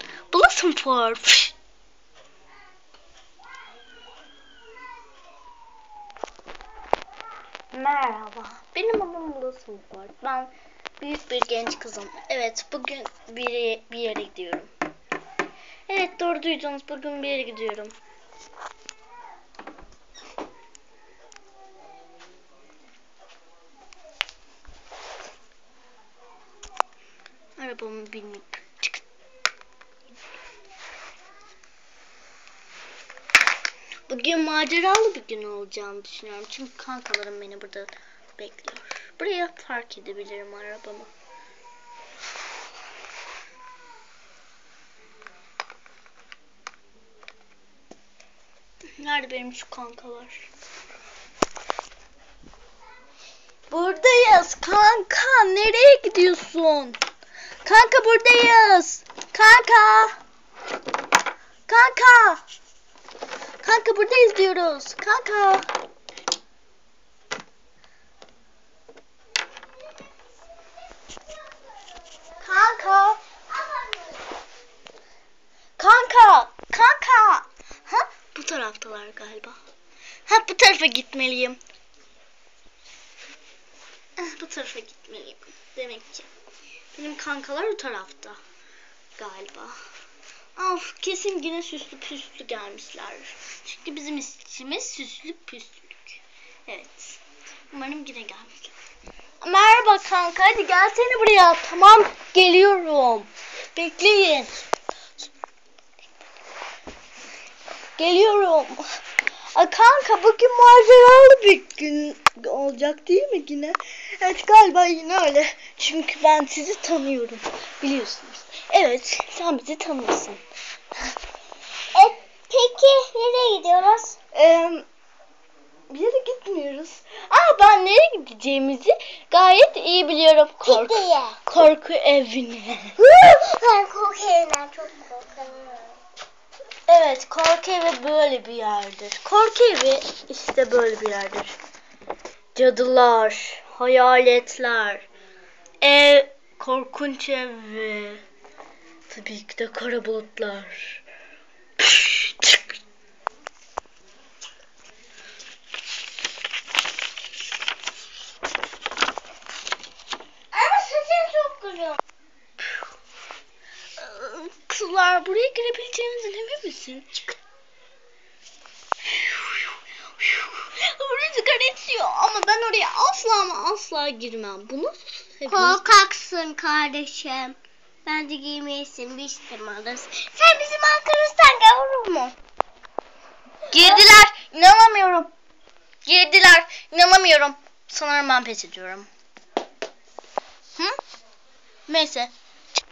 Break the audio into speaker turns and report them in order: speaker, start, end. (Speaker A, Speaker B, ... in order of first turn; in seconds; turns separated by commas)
Speaker A: 0.3-1.5, Speaker A: 7.7-14.7, Speaker A: 15.9-17.9, Speaker A: 27.6-29.0, Speaker A: 34.1-41.1, Speaker A: 49.0-50.5, Speaker A: 53.7-57.0, Speaker A: 57.6-60.1, Speaker A: 61.7-62.4, Speaker A: 63.6-65.7, Speaker B: 71.4-74.2, Speaker A: 72.4-73.2, Speaker A: 75.8-79.6, Speaker A: 80.3-81.6, Speaker A: 84.2-86.3, Speaker A: 86.9-88.4, Speaker A: 89.2-89.8, Speaker A: 90.5-98.7, Speaker A: 99.4-104.6, Speaker A: 108.0-108.8, Speaker A: 109.5-120.4, Speaker B: 121.9-124.2, Speaker A: 124.3-124.8, Speaker A: 125.9-132.9, Speaker B: 130.6-131.4, Speaker B: 133.0-135.9, Speaker A: 136.9-141.5, Speaker A: 142.5-145.1, Speaker A: 145.8-148.2, Speaker A: 149.1-151.0, Speaker A: 151.8-152.7, Speaker B: 160.5-162.0, Speaker A: 164.0-167.2, Speaker A: 169.1-175.8, Speaker B: 175.5-182.3, Speaker A: 183.7-185.3, Speaker B: 183.7-184.0, Speaker A: 186.0-189.1, Speaker A: 191.9-192.3